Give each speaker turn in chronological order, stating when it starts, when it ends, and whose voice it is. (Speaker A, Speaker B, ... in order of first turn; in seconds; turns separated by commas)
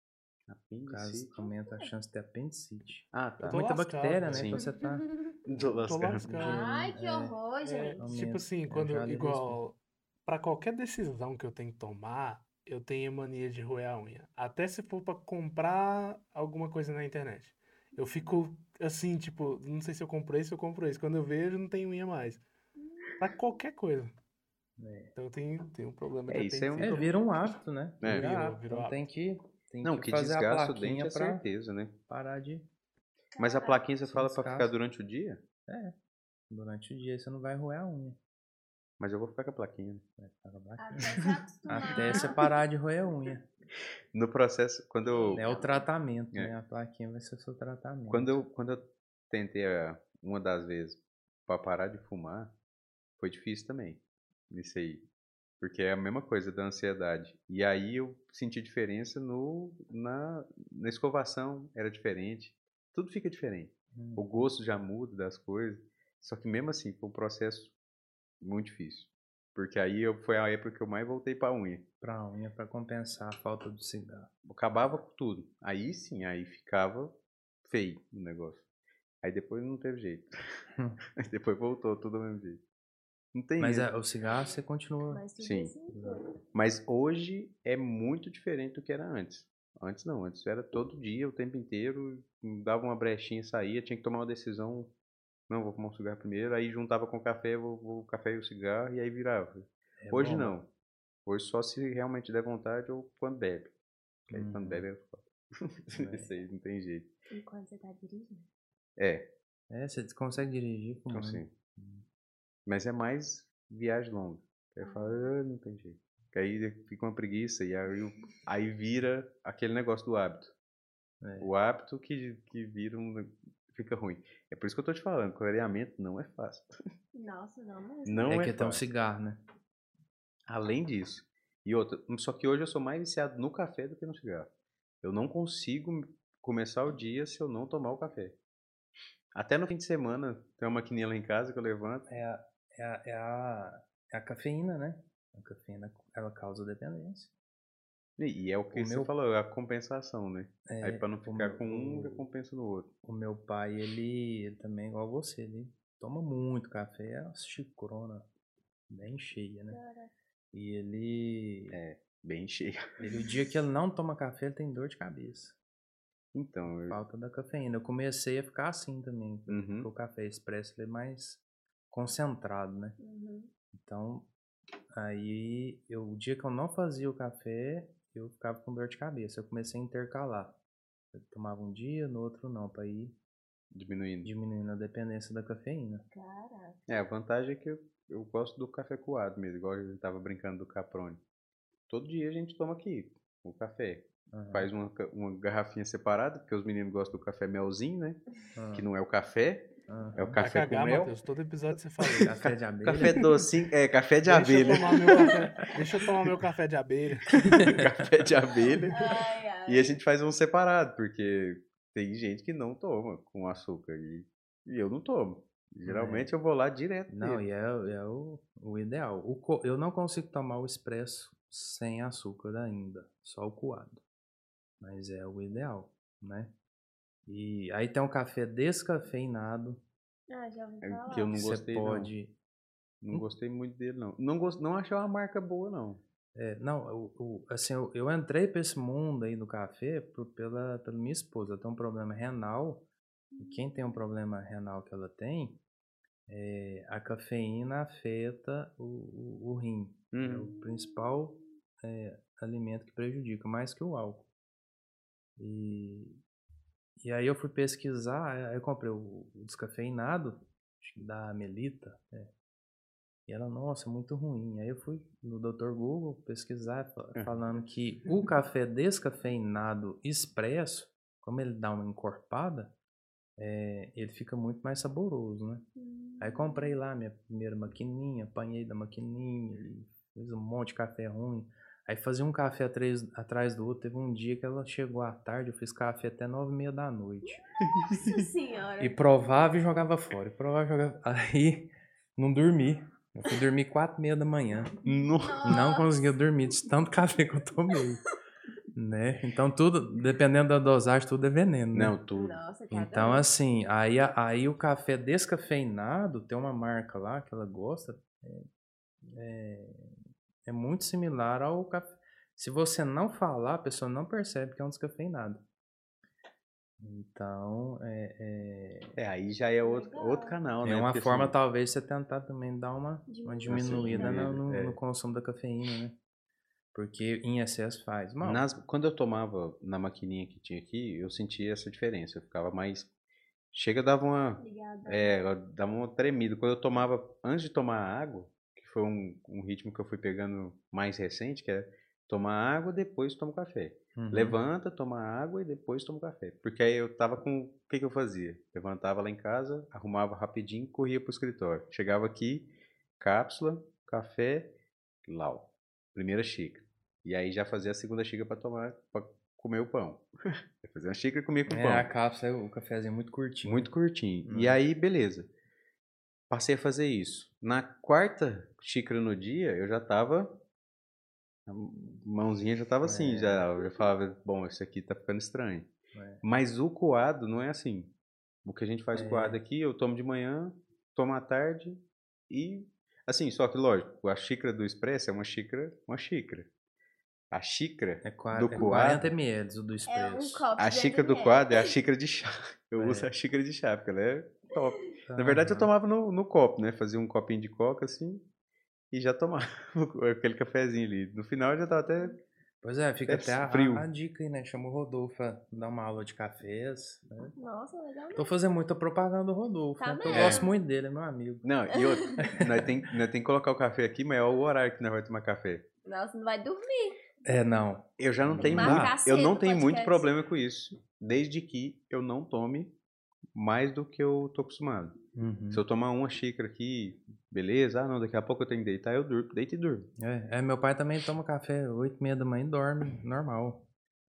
Speaker A: 0.5-1.3, Speaker B: 0.9-5.1, Speaker C: 1.4-1.9, Speaker A: 3.1-3.6, Speaker D: 3.4-4.6, Speaker A: 4.3-4.7, Speaker A: 5.5-6.3, Speaker D: 5.8-6.7, Speaker B: 6.3-7.4, Speaker C: 6.4-8.0, Speaker D: 7.6-22.4, Speaker B: 8.0-9.6, Speaker C: 17.9-18.4, Speaker C: 22.8-23.1, Speaker D: 23.2-24.1, Speaker B: 24.8-25.1, Speaker D: 25.1-27.2, Speaker A: 26.3-27.1, Speaker B: 26.8-31.4, Speaker A: 28.0-28.3, Speaker D: 28.0-29.0, Speaker A: 29.8-31.9, Speaker B: 32.1-32.6, Speaker C: 33.3-33.8, Speaker A: 33.4-35.4, Speaker B: 34.0-34.7, Speaker B: 35.7-35.9, Speaker B: 36.5-38.2, Speaker A: 39.0-40.0, Speaker B: 40.2-41.1, Speaker C: 40.8-42.4, Speaker A: 41.0-42.4, Speaker B: 41.7-43.5, Speaker A: 44.1-45.5, Speaker C: 45.0-45.9, Speaker B: 45.3-48.4, Speaker A: 48.1-52.5, Speaker A: 53.2-55.0, Speaker A: 55.6-67.7, Speaker B: 63.9-64.4, Speaker A: 68.4-71.8, Speaker B: 72.0-74.3, Speaker A: 74.5-78.7, Speaker A: 79.2-80.3, Speaker A: 81.2-82.6, Speaker A: 83.3-83.9, Speaker B: 83.6-85.2, Speaker C: 85.1-86.3, Speaker A: 85.4-85.7, Speaker B: 85.9-86.2, Speaker A: 86.5-94.9, Speaker A: 95.5-100.7, Speaker B: 100.0-100.6, Speaker A: 101.2-103.7, Speaker A: 104.3-107.1, Speaker B: 104.3-104.8, Speaker B: 105.9-106.3, Speaker C: 107.3-108.5, Speaker A: 109.0-109.3, Speaker B: 109.7-112.0, Speaker A: 111.1-111.5, Speaker A: 112.7-120.5, Speaker C: 114.8-115.3, Speaker B: 121.2-121.5, Speaker A: 121.4-126.8, Speaker C: 127.1-128.3, Speaker A: 128.1-128.8, Speaker B: 128.3-129.4, Speaker A: 130.5-134.5, Speaker A: 135.0-138.3, Speaker A: 139.3-142.1, Speaker B: 142.1-147.3, Speaker A: 148.2-152.9, Speaker B: 148.7-149.1, Speaker B: 150.7-152.3, Speaker B: 153.0-158.3, Speaker B: 158.9-159.8, Speaker C: 159.7-160.1, Speaker B: 160.5-161.8, Speaker A: 161.7-162.9, Speaker C: 163.0-163.4, Speaker B: 163.0-165.6, Speaker A: 166.3-167.0, Speaker B: 166.8-173.0, Speaker A: 169.5-169.9, Speaker C: 173.0-173.5, Speaker B: 173.7-174.3, Speaker B: 174.9-180.6, Speaker B: 181.1-183.2, Speaker A: 183.7-184.3, Speaker B: 184.2-186.0, Speaker C: 186.1-186.8, Speaker A: 186.9-191.2, Speaker A: 191.9-198.2, Speaker B: 194.3-194.7, Speaker B: 198.6-198.9, Speaker A: 198.7-201.1, Speaker B: 199.9-200.4, Speaker D: 200.4-202.3, Speaker A: 202.0-205.4, Speaker B: 202.2-203.3, Speaker D: 204.2-207.8, Speaker A: 207.4-209.0, Speaker B: 207.6-207.9, Speaker C: 208.9-209.9, Speaker A: 209.7-217.4, Speaker B: 215.9-216.3, Speaker B: 217.1-224.0, Speaker B: 224.8-226.5, Speaker B: 227.3-229.8, Speaker C: 230.3-231.4, Speaker A: 230.8-232.1, Speaker B: 231.3-232.3, Speaker A: 233.0-236.0, Speaker B: 236.3-242.8, Speaker C: 243.3-244.0, Speaker B: 243.4-245.6, Speaker B: 246.3-254.3, Speaker A: 250.1-250.5, Speaker C: 250.6-251.2, Speaker B: 255.4-256.2, Speaker B: 257.0-262.3, Speaker B: 263.3-272.7, Speaker B: 273.4-275.6, Speaker C: 275.8-276.8, Speaker B: 276.2-287.4, Speaker C: 287.2-289.1, Speaker A: 287.8-288.1, Speaker B: 288.8-294.8, Speaker A: 294.9-295.6, Speaker C: 295.2-295.9, Speaker B: 295.4-298.0, Speaker B: 298.8-301.9, Speaker A: 301.7-302.4, Speaker C: 302.1-303.3, Speaker B: 302.7-308.5, Speaker B: 309.1-315.4, Speaker B: 316.8-318.9, Speaker A: 319.0-321.4, Speaker C: 319.6-320.4, Speaker B: 320.6-325.9, Speaker C: 323.1-324.3, Speaker A: 323.5-324.8, Speaker B: 326.7-328.4, Speaker A: 328.2-332.9, Speaker A: 333.5-352.5, Speaker C: 334.4-335.2, Speaker B: 343.9-344.4, Speaker A: 353.0-354.5, Speaker A: 355.1-361.9, Speaker B: 361.5-363.7, Speaker A: 363.4-365.3, Speaker B: 364.3-364.6, Speaker A: 366.3-370.3, Speaker A: 371.5-375.7, Speaker B: 372.8-373.5, Speaker B: 375.9-376.2, Speaker A: 376.2-377.9, Speaker A: 378.4-386.5, Speaker B: 378.9-379.4, Speaker A: 387.3-389.1, Speaker B: 388.0-390.5, Speaker C: 389.9-391.7, Speaker A: 390.6-398.2, Speaker B: 392.8-393.1, Speaker B: 395.1-395.7, Speaker A: 398.9-402.2, Speaker B: 402.6-407.3, Speaker A: 403.1-403.9, Speaker C: 407.4-408.4, Speaker B: 408.1-411.5, Speaker C: 409.8-410.6, Speaker A: 410.1-410.5, Speaker A: 411.4-415.6, Speaker C: 411.7-412.2, Speaker B: 412.2-412.7, Speaker C: 415.9-417.0, Speaker B: 417.2-418.9, Speaker A: 418.0-422.7, Speaker C: 418.4-420.1, Speaker A: 423.4-424.9, Speaker B: 425.1-425.6, Speaker A: 425.5-429.9, Speaker B: 430.0-433.6